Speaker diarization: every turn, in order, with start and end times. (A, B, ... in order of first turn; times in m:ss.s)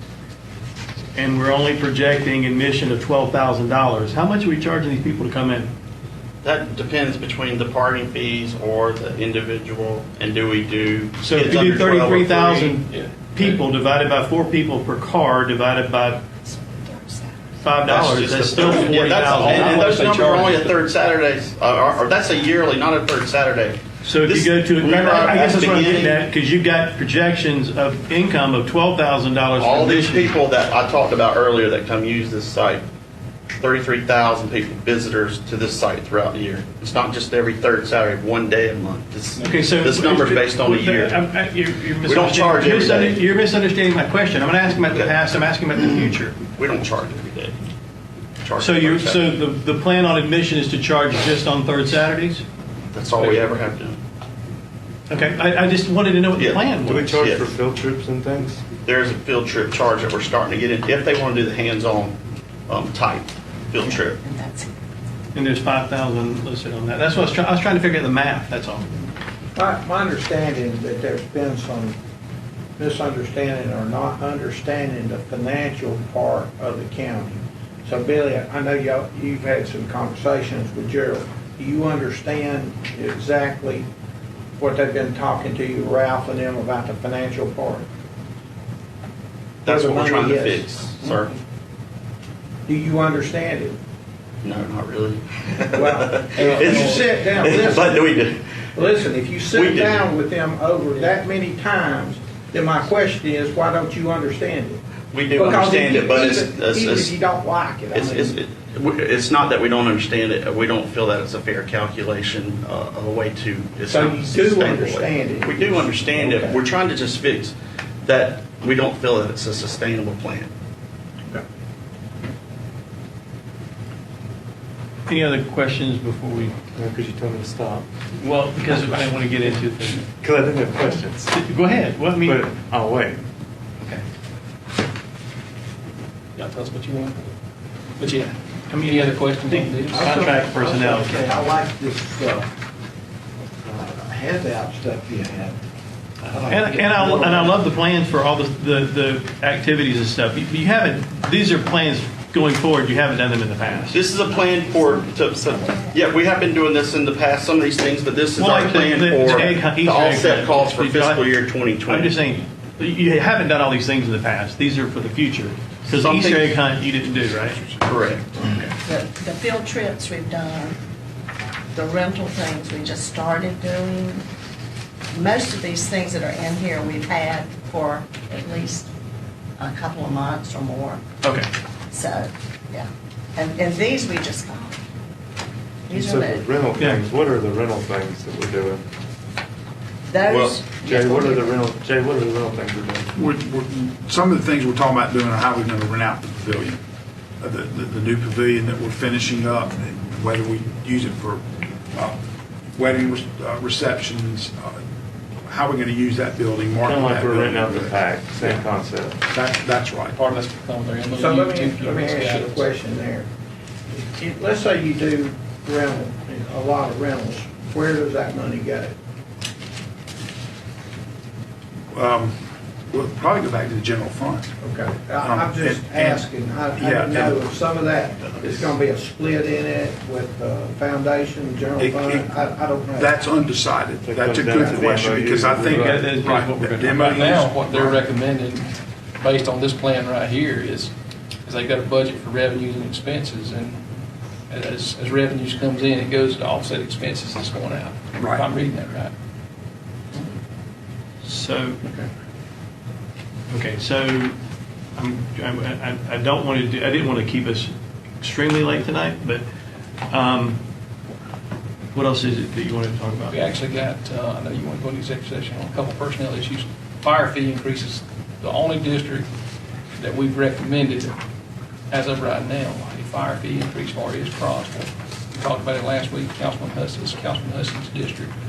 0:01.1-0:05.7 A
0:06.4-0:12.8 B
0:11.2-0:16.2 A
0:12.8-0:13.6 C
0:16.6-0:17.3 D
0:17.6-0:20.6 A
0:17.8-0:26.2 B
0:19.3-0:20.5 C
0:24.0-0:30.4 A
0:29.6-0:32.8 B
0:33.6-0:41.2 B
0:39.4-0:46.4 A
0:42.0-0:43.2 B
0:44.8-0:45.2 B
0:46.6-0:47.6 B
0:48.4-0:49.4 B
0:48.6-0:52.4 A
0:52.9-0:54.0 B
0:53.2-0:53.6 A
0:55.1-0:57.3 A
0:56.4-0:57.6 B
0:56.8-0:58.6 E
0:58.8-1:04.2 B
1:03.8-1:04.7 D
1:05.3-1:08.9 A
1:09.5-1:12.0 F
1:12.8-1:23.9 F
1:24.6-1:27.9 F
1:29.6-1:31.3 B
1:29.6-1:30.8 F
1:32.6-1:33.8 F
1:34.4-1:38.9 B
1:35.7-1:38.2 F
1:36.4-1:37.0 C
1:38.8-1:48.4 F
1:39.5-1:40.1 B
1:45.1-1:47.2 B
1:47.9-2:00.5 B
1:53.8-1:56.6 F
2:05.1-2:06.6 A
2:06.7-2:07.8 E
2:08.2-2:10.1 A
2:10.2-2:11.3 E
2:11.3-2:12.5 A
2:12.2-2:13.2 E
2:16.4-2:17.3 C
2:18.0-2:20.2 C
2:18.0-2:21.2 A
2:19.9-2:22.5 F
2:23.6-2:25.6 F
2:26.2-2:27.6 F
2:26.4-2:34.0 A
2:33.9-2:42.1 B
2:38.4-2:41.3 A
2:41.8-2:47.6 A
2:45.9-2:46.5 B
2:47.8-2:48.5 B
2:48.8-2:50.8 D
2:51.7-2:54.2 D
2:55.1-2:58.9 D
2:59.6-3:01.0 D
3:01.2-3:01.5 A
3:01.9-3:04.8 D
3:05.9-3:06.5 D
3:05.9-3:08.8 E
3:06.8-3:07.0 A
3:10.1-3:11.6 D
3:10.3-3:10.6 B
3:10.7-3:13.1 E
3:13.1-3:16.8 G
3:17.4-3:22.2 G
3:22.8-3:24.8 G
3:25.4-3:28.6 G
3:26.8-3:29.2 E
3:29.3-3:30.2 G
3:30.1-3:32.7 C
3:31.1-3:33.3 F
3:33.9-3:38.9 F
3:41.9-3:42.4 G
3:42.9-3:44.5 G
3:44.6-3:53.1 F
3:45.2-3:47.5 G
3:48.3-3:48.7 G
3:51.8-3:52.3 G
3:52.9-3:58.0 G
3:54.0-3:56.1 E
3:55.7-3:57.2 A
3:57.0-4:00.9 C
4:01.4-4:03.8 C
4:04.5-4:09.1 C
4:08.2-4:08.4 G
4:11.2-4:11.8 A
4:13.5-4:14.3 A
4:15.0-4:19.4 A
4:20.1-4:20.6 A
4:21.9-4:23.4 A
4:23.3-4:29.3 C
4:30.0-4:31.1 C
4:31.9-4:38.3 C